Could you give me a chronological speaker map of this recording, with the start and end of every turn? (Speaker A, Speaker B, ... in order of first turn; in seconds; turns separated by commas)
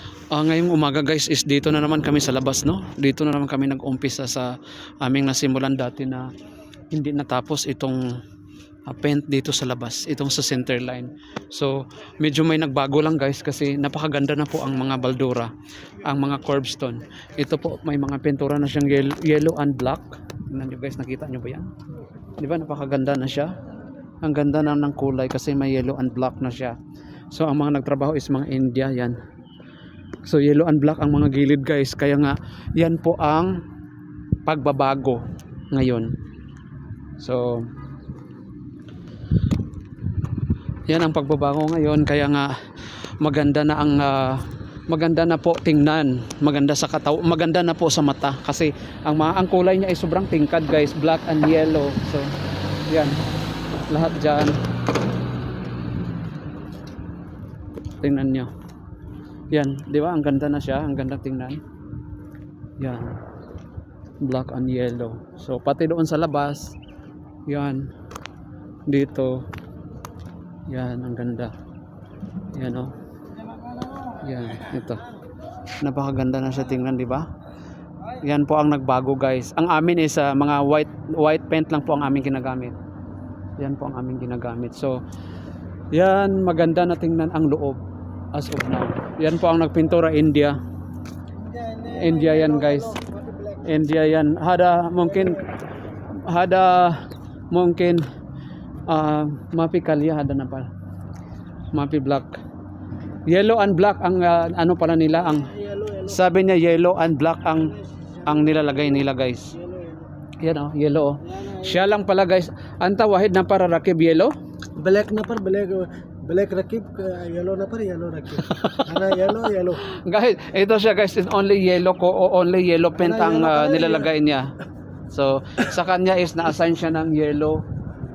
Speaker A: 0.3-6.3, Speaker A: 6.9-8.0, Speaker A: 8.9-15.5, Speaker A: 16.0-21.7, Speaker A: 22.4-23.5, Speaker A: 24.2-26.8, Speaker A: 27.3-29.2, Speaker A: 30.2-33.6, Speaker A: 34.5-36.1, Speaker A: 37.2-37.7, Speaker A: 40.9-42.5, Speaker A: 43.2-52.3, Speaker A: 52.9-53.2, Speaker A: 53.8-54.6, Speaker A: 58.0-58.5, Speaker A: 59.5-61.6, Speaker A: 62.8-63.2, Speaker A: 64.2-66.8, Speaker A: 67.5-67.9, Speaker A: 68.9-69.5, Speaker A: 70.7-71.5, Speaker A: 72.5-72.9, Speaker A: 74.2-75.1, Speaker A: 75.8-77.3, Speaker A: 78.1-82.8, Speaker A: 83.6-85.0, Speaker A: 85.9-87.8, Speaker A: 88.3-90.6, Speaker B: 91.4-93.6, Speaker A: 91.9-93.0, Speaker A: 93.6-95.5, Speaker A: 96.2-98.0, Speaker A: 98.9-100.7, Speaker A: 101.7-102.4, Speaker A: 103.3-105.5, Speaker B: 105.4-106.2, Speaker A: 106.0-109.6, Speaker B: 108.3-110.1, Speaker A: 110.4-114.3, Speaker B: 111.3-111.9, Speaker B: 114.8-119.8, Speaker A: 118.5-118.8, Speaker A: 119.8-124.5, Speaker B: 123.0-124.1, Speaker A: 125.1-127.6